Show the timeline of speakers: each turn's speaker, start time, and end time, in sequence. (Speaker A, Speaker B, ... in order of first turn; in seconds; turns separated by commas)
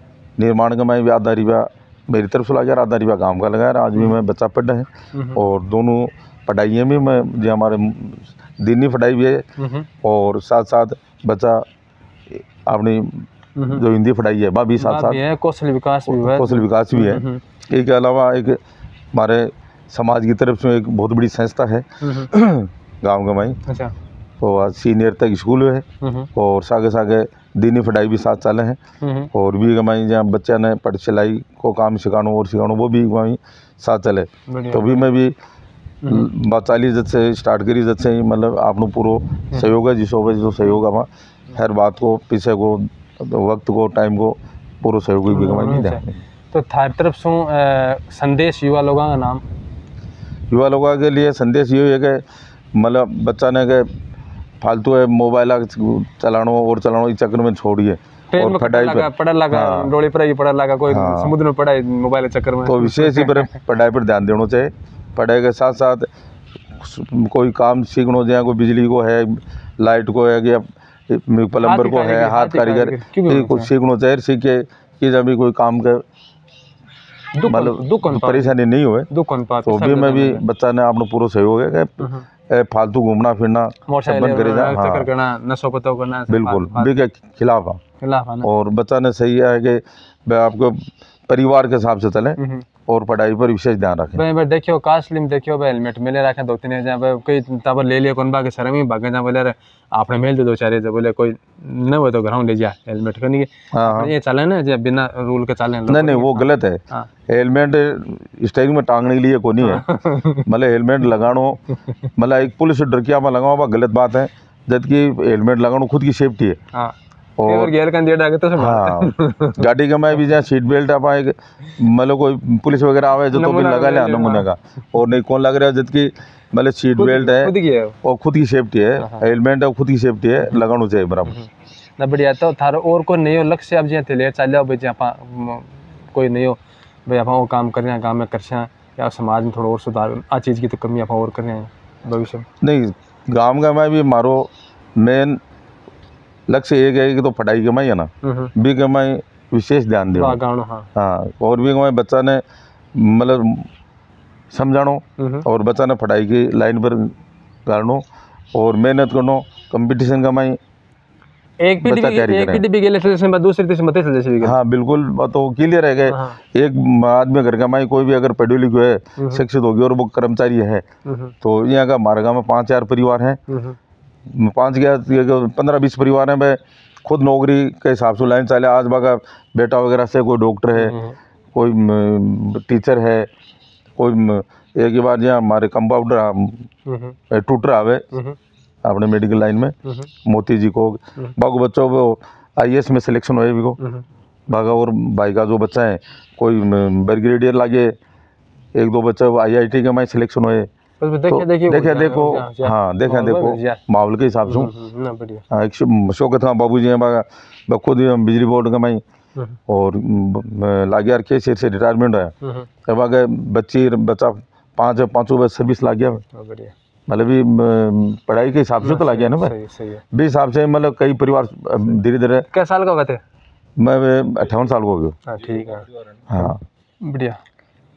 Speaker A: 0.4-9.4, Speaker B: 5.1-5.4, Speaker B: 9.6-9.9, Speaker A: 10.0-11.6, Speaker A: 12.3-15.2, Speaker B: 13.6-13.8, Speaker B: 14.8-17.4, Speaker A: 16.1-18.6, Speaker A: 19.1-23.6, Speaker B: 22.0-22.3, Speaker B: 23.7-23.9, Speaker A: 24.4-28.8, Speaker B: 26.0-26.3, Speaker B: 29.0-29.3, Speaker A: 29.3-35.3, Speaker B: 34.5-35.1, Speaker B: 36.0-36.3, Speaker A: 36.0-46.2, Speaker B: 45.3-49.4, Speaker A: 50.5-53.9, Speaker A: 54.6-59.9, Speaker B: 58.3-63.5, Speaker A: 60.9-61.3, Speaker A: 62.6-66.1, Speaker A: 66.8-76.0, Speaker B: 71.6-73.7, Speaker B: 77.3-78.5, Speaker A: 77.5-79.1, Speaker B: 79.1-80.4, Speaker A: 79.6-85.1, Speaker B: 82.0-82.2, Speaker B: 83.9-87.0, Speaker A: 86.3-87.8, Speaker B: 88.0-88.5, Speaker A: 88.4-94.2, Speaker B: 92.4-92.7, Speaker B: 94.1-107.1, Speaker A: 103.7-104.1, Speaker A: 105.9-111.6, Speaker B: 109.6-110.5, Speaker A: 112.1-116.6, Speaker B: 116.7-119.7, Speaker A: 117.4-117.7, Speaker A: 118.6-131.4, Speaker B: 123.3-124.5, Speaker B: 127.0-128.0, Speaker B: 129.0-129.3, Speaker B: 132.0-142.4, Speaker A: 142.6-145.4, Speaker A: 146.5-150.4, Speaker B: 148.2-148.5, Speaker B: 150.1-150.9, Speaker A: 150.9-152.4, Speaker A: 152.9-153.7, Speaker A: 154.5-157.1, Speaker B: 155.2-155.5, Speaker A: 157.7-160.6, Speaker B: 161.6-164.5, Speaker A: 161.8-162.6, Speaker A: 164.4-170.8, Speaker B: 166.1-166.4, Speaker B: 169.2-169.4, Speaker B: 171.1-171.3, Speaker A: 171.4-173.4, Speaker B: 173.5-173.8, Speaker A: 174.3-181.0, Speaker B: 180.7-181.2, Speaker A: 181.5-183.3, Speaker A: 184.0-186.7, Speaker B: 186.8-187.2, Speaker A: 187.3-188.1, Speaker B: 188.1-188.4, Speaker A: 188.8-193.8, Speaker B: 189.8-190.1, Speaker B: 193.8-194.0, Speaker A: 194.5-197.9, Speaker A: 198.7-200.7, Speaker B: 201.0-203.8, Speaker A: 201.3-204.7, Speaker B: 204.4-205.4, Speaker A: 205.5-209.0, Speaker A: 209.7-212.3, Speaker B: 212.4-212.7, Speaker A: 212.8-216.2, Speaker B: 216.3-216.7, Speaker A: 217.1-219.5, Speaker B: 218.8-220.0, Speaker A: 220.1-222.5, Speaker B: 222.5-223.2, Speaker A: 223.8-225.2, Speaker B: 225.2-226.5, Speaker A: 226.3-226.6, Speaker B: 227.0-227.4